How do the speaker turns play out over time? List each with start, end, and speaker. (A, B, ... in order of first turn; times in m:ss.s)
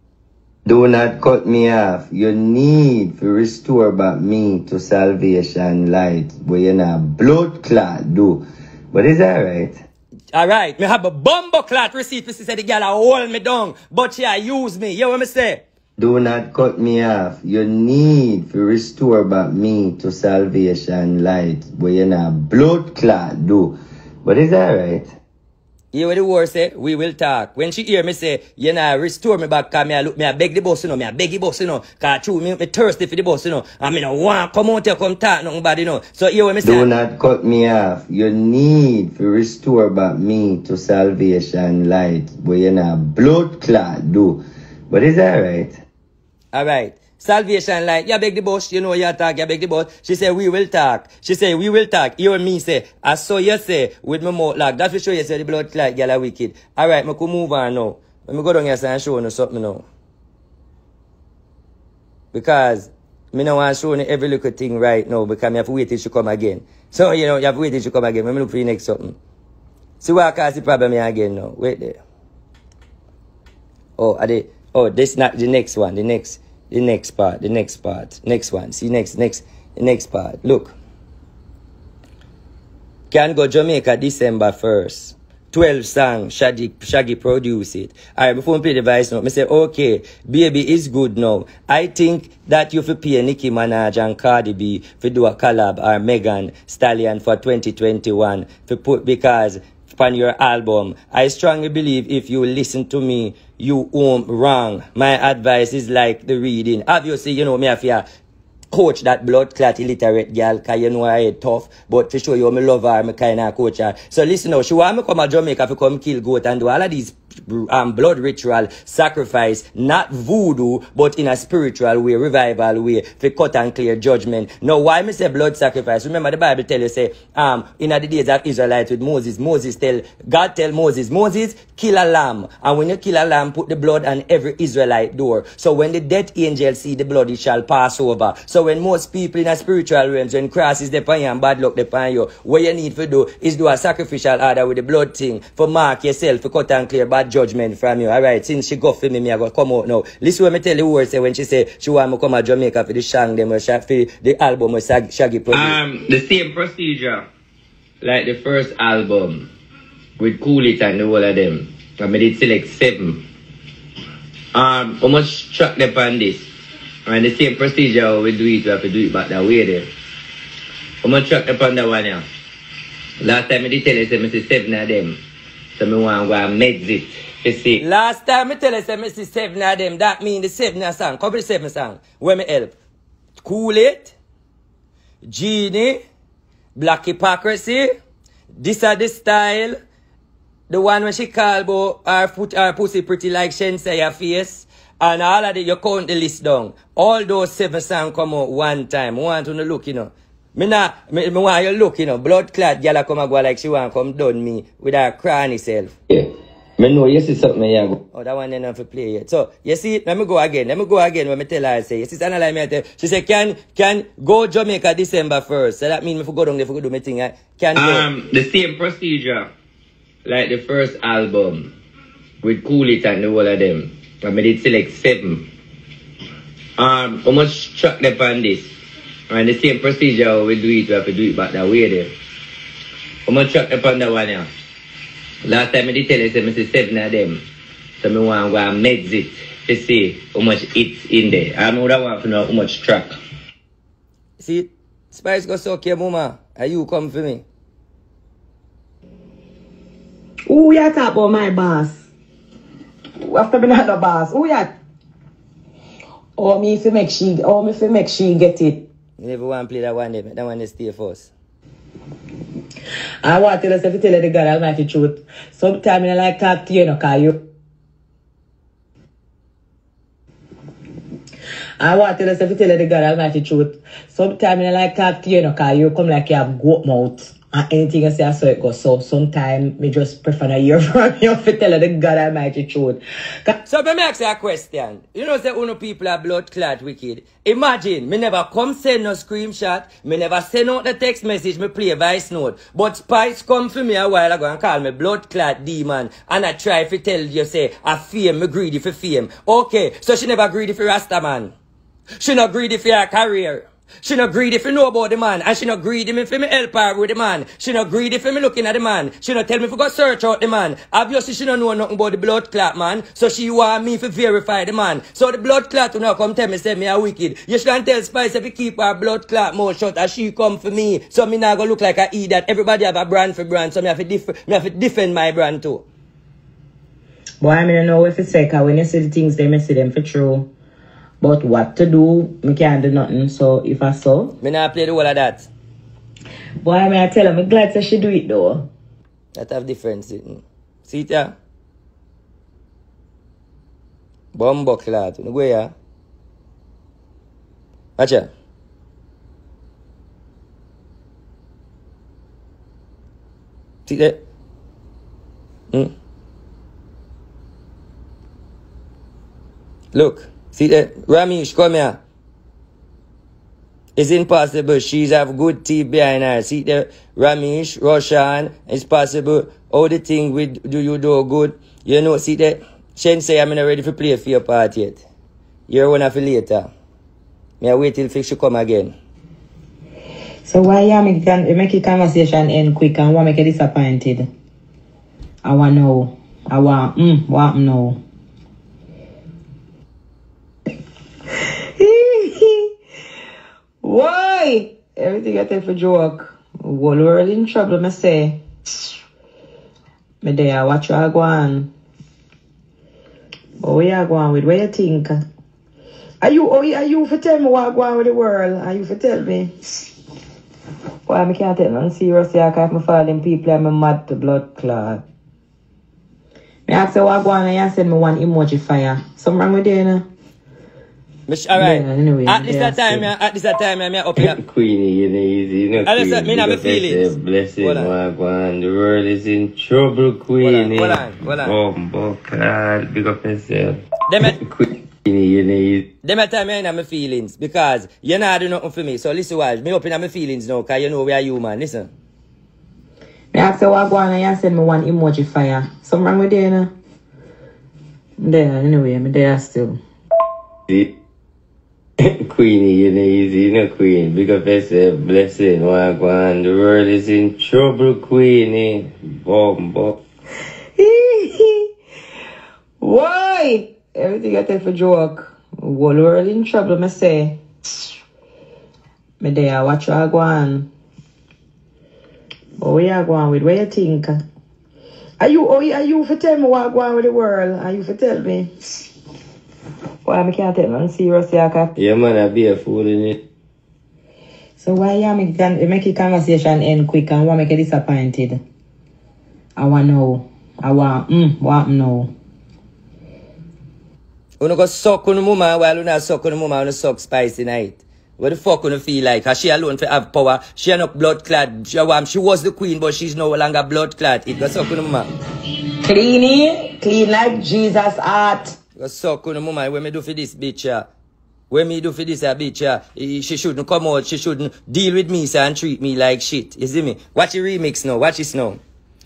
0:00.6-0:09.8 A
0:10.3-0:15.6 B
0:16.0-0:25.1 A
0:25.9-0:36.9 B
0:36.6-0:45.8 A
0:46.5-0:59.8 B
1:02.3-1:09.2 B
1:10.0-1:12.0 B
1:14.0-1:20.7 B
1:23.1-1:48.0 B
1:48.7-2:35.8 B
2:35.5-2:37.2 A
2:38.0-2:39.5 A
2:40.2-2:43.2 A
2:44.5-2:46.5 A
2:47.0-2:49.9 A
2:51.0-2:52.2 A
2:53.2-2:55.2 A
2:55.8-2:57.8 A
2:57.8-3:02.7 B
3:03.4-3:04.1 B
3:05.2-3:06.0 B
3:06.8-3:07.9 B
3:08.6-3:09.8 B
3:10.7-3:25.9 B
3:26.1-3:28.0 A
3:28.1-3:38.1 B
3:37.7-3:39.5 A
3:40.2-3:41.7 A
3:42.4-3:45.5 A
3:46.8-3:48.7 A
3:49.3-3:52.1 A
3:53.2-3:54.5 A
3:55.4-3:57.4 A
3:58.0-4:03.1 A
4:04.4-4:07.4 B
4:10.5-4:12.1 C
4:13.2-4:14.7 C
4:16.4-4:18.8 C
4:19.2-4:21.3 B
4:23.2-4:27.4 C
4:31.8-4:43.5 C
4:43.6-5:01.5 B
5:02.2-5:25.8 B
5:27.4-5:30.5 C
5:31.2-5:34.3 C
5:34.4-5:35.5 B
5:36.6-5:38.6 C
5:39.4-5:41.3 B
5:44.3-5:45.7 B
5:48.0-5:48.3 B
5:53.9-5:54.2 B
5:59.9-6:02.0 B
6:04.0-6:15.0 B
6:15.7-6:16.7 B
6:17.6-6:18.9 B
6:20.4-6:24.3 C
6:25.4-6:28.0 C
6:31.8-6:32.7 C
6:33.8-6:38.4 C
6:40.2-6:41.7 C
6:43.6-6:45.2 C
6:46.2-6:49.5 C
6:51.1-6:55.0 C
6:56.7-7:00.0 C
7:01.3-7:04.4 B
7:01.5-7:03.0 C
7:04.2-7:15.9 A
7:05.8-7:07.9 B
7:10.4-7:11.6 B
7:14.1-7:14.4 B
7:16.0-7:21.9 B
7:23.3-7:26.7 C
7:28.2-7:29.8 C
7:32.0-7:39.9 A
7:40.8-7:41.7 C
7:42.8-7:47.4 C
7:49.2-7:50.7 C
7:52.6-7:54.2 C
7:55.2-7:58.5 C
8:00.0-8:01.7 C
8:01.8-8:03.2 A
8:04.6-8:08.4 C
8:09.6-8:12.1 C
8:14.4-8:25.1 B
8:25.8-8:28.6 C
8:28.8-8:30.9 B
8:31.5-8:38.6 B